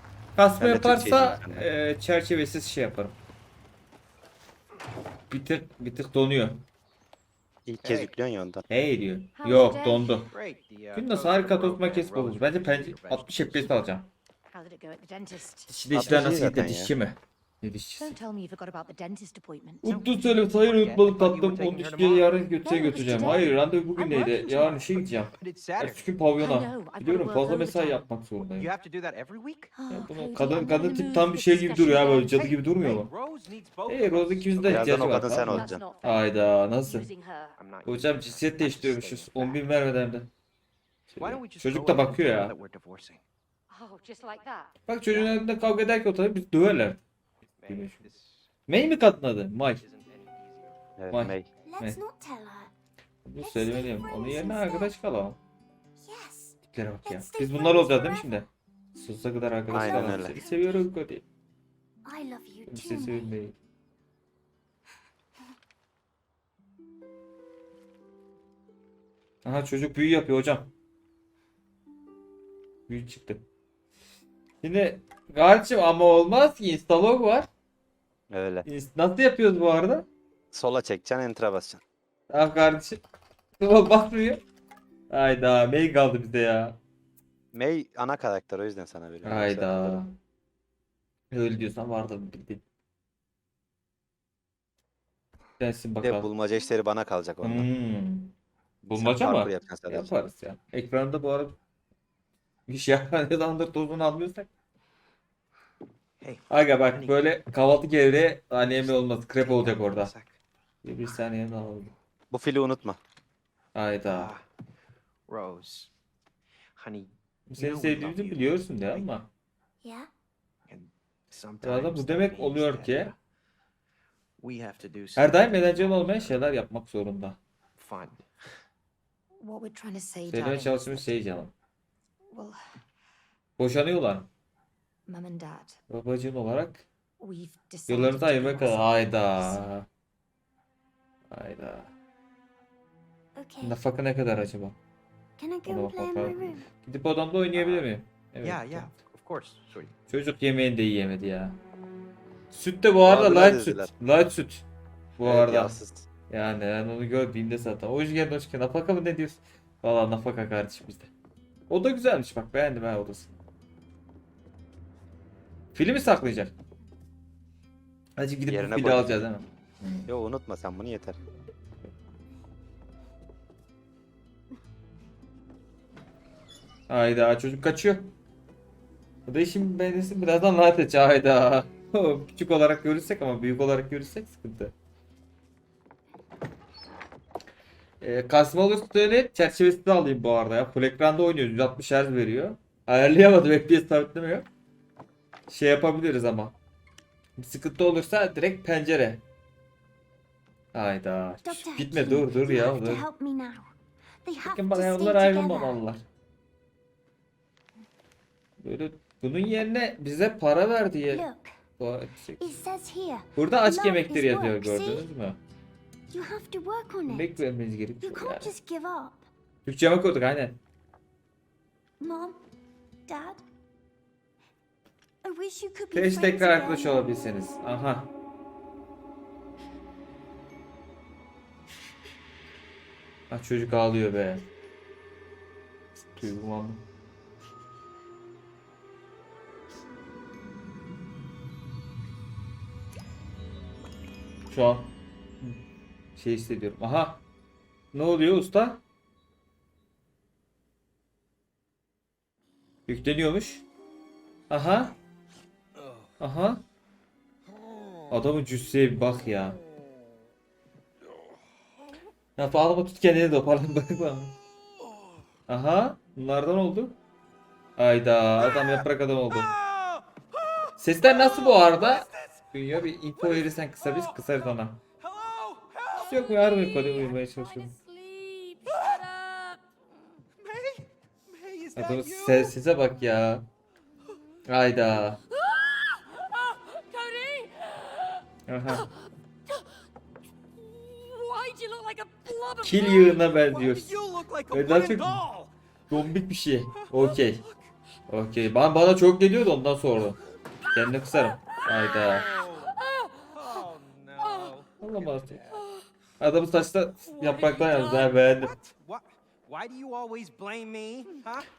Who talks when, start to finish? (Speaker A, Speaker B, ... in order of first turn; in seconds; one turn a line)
Speaker A: 0.3-3.1
Speaker B: 0.6-1.6
Speaker A: 5.3-6.6
Speaker B: 7.7-8.6
Speaker C: 7.8-8.1
Speaker A: 8.7-10.3
Speaker D: 9.4-10.1
Speaker C: 10.3-13.7
Speaker A: 10.9-14.1
Speaker D: 14.5-15.7
Speaker A: 15.7-18.1
Speaker B: 15.9-16.9
Speaker D: 18.0-19.9
Speaker A: 19.8-28.7
Speaker C: 19.8-22.5
Speaker D: 22.6-24.9
Speaker E: 22.6-23.5
Speaker C: 25.4-26.1
Speaker D: 26.4-28.0
Speaker C: 28.5-29.7
Speaker E: 29.7-32.3
Speaker A: 29.9-33.1
Speaker D: 29.9-32.3
Speaker C: 32.2-35.1
Speaker A: 33.9-37.1
Speaker B: 34.7-35.8
Speaker D: 35.2-36.2
Speaker D: 36.8-37.5
Speaker C: 37.5-39.6
Speaker A: 37.9-40.3
Speaker A: 41.1-42.5
Speaker C: 41.2-43.2
Speaker D: 43.7-44.7
Speaker A: 44.9-47.0
Speaker C: 45.1-45.4
Speaker C: 47.6-48.5
Speaker A: 47.7-48.0
Speaker A: 48.7-49.8
Speaker C: 49.8-50.8
Speaker B: 51.0-51.5
Speaker A: 51.1-52.0
Speaker E: 51.6-52.7
Speaker A: 53.2-55.4
Speaker E: 53.4-54.9
Speaker E: 56.0-58.4
Speaker A: 56.7-61.2
Speaker B: 59.7-60.4
Speaker E: 59.7-60.8
Speaker E: 62.0-63.3
Speaker A: 62.7-63.5
Speaker A: 69.4-70.7
Speaker A: 72.9-73.4
Speaker A: 74.6-77.5
Speaker B: 78.3-78.7
Speaker A: 78.7-80.0
Speaker B: 80.5-81.8
Speaker A: 82.3-83.0
Speaker A: 83.6-84.4
Speaker A: 85.1-86.8
Speaker B: 87.5-90.0
Speaker A: 89.2-90.1
Speaker A: 91.3-92.6
Speaker A: 95.6-96.3
Speaker B: 96.0-97.7
Speaker A: 97.4-98.3
Speaker B: 98.9-100.1
Speaker A: 98.9-101.6
Speaker A: 102.7-104.5
Speaker C: 106.2-107.2
Speaker A: 106.5-110.1
Speaker C: 108.6-110.4
Speaker A: 110.8-111.9
Speaker B: 112.3-113.0
Speaker A: 113.7-114.3
Speaker C: 114.0-114.4
Speaker C: 115.3-115.9
Speaker C: 116.8-119.0
Speaker A: 117.5-119.3
Speaker E: 119.8-120.1
Speaker C: 120.7-123.1
Speaker A: 121.6-123.1
Speaker C: 124.4-126.4
Speaker A: 125.2-127.4
Speaker C: 127.8-128.2
Speaker D: 129.4-131.0
Speaker A: 130.3-131.5
Speaker D: 132.3-132.6
Speaker A: 133.6-134.3
Speaker D: 135.1-135.8
Speaker A: 135.9-136.8
Speaker D: 137.2-139.6
Speaker A: 137.9-139.9
Speaker A: 141.3-141.9
Speaker E: 143.3-143.8
Speaker A: 143.6-144.7
Speaker E: 145.4-146.7
Speaker A: 145.7-148.9
Speaker C: 147.5-147.8
Speaker C: 148.4-149.9
Speaker A: 150.1-151.6
Speaker A: 152.5-154.6
Speaker B: 153.1-153.9
Speaker A: 155.2-155.8
Speaker B: 155.2-156.1
Speaker A: 156.3-161.1
Speaker A: 161.7-163.3
Speaker A: 165.7-166.5
Speaker A: 168.2-170.1
Speaker B: 168.5-169.3
Speaker B: 170.1-171.2
Speaker A: 176.9-178.1
Speaker A: 179.3-184.7
Speaker A: 188.0-194.4
Speaker A: 195.5-196.5
Speaker A: 197.4-199.2
Speaker A: 200.7-203.0
Speaker E: 201.4-203.7
Speaker E: 204.2-205.8
Speaker A: 204.4-206.0
Speaker A: 208.6-211.2
Speaker E: 211.1-211.6
Speaker A: 211.8-212.4
Speaker E: 212.4-215.1
Speaker A: 213.3-215.4
Speaker E: 216.1-217.4
Speaker A: 217.1-218.5
Speaker E: 218.0-219.2
Speaker A: 219.6-220.6
Speaker E: 222.0-222.4
Speaker E: 223.1-223.4
Speaker E: 225.2-227.0
Speaker A: 225.9-228.1
Speaker A: 233.3-234.4
Speaker A: 236.0-236.8
Speaker A: 244.5-245.6
Speaker A: 246.2-247.2
Speaker A: 247.9-248.8
Speaker A: 252.9-253.6
Speaker A: 254.5-254.9
Speaker A: 256.2-256.6
Speaker A: 258.1-259.6
Speaker A: 262.4-264.3
Speaker A: 265.5-267.0
Speaker A: 267.8-269.5
Speaker C: 269.3-272.4
Speaker A: 270.8-274.8
Speaker C: 273.4-274.1
Speaker C: 275.0-276.2
Speaker A: 276.0-277.7
Speaker D: 276.2-279.6
Speaker C: 280.4-282.5
Speaker A: 281.8-283.4
Speaker A: 284.5-285.2
Speaker D: 285.4-288.9
Speaker A: 288.5-288.9
Speaker D: 290.6-293.2
Speaker A: 292.6-293.9
Speaker C: 293.5-295.5
Speaker A: 294.5-295.2
Speaker A: 295.9-297.4
Speaker C: 296.7-297.6
Speaker A: 298.1-300.2
Speaker A: 300.7-302.3
Speaker C: 302.0-302.8
Speaker D: 302.2-303.4
Speaker C: 303.3-305.6
Speaker D: 304.2-304.5
Speaker A: 304.8-305.4
Speaker A: 306.2-308.5
Speaker D: 307.1-308.1
Speaker C: 308.3-311.4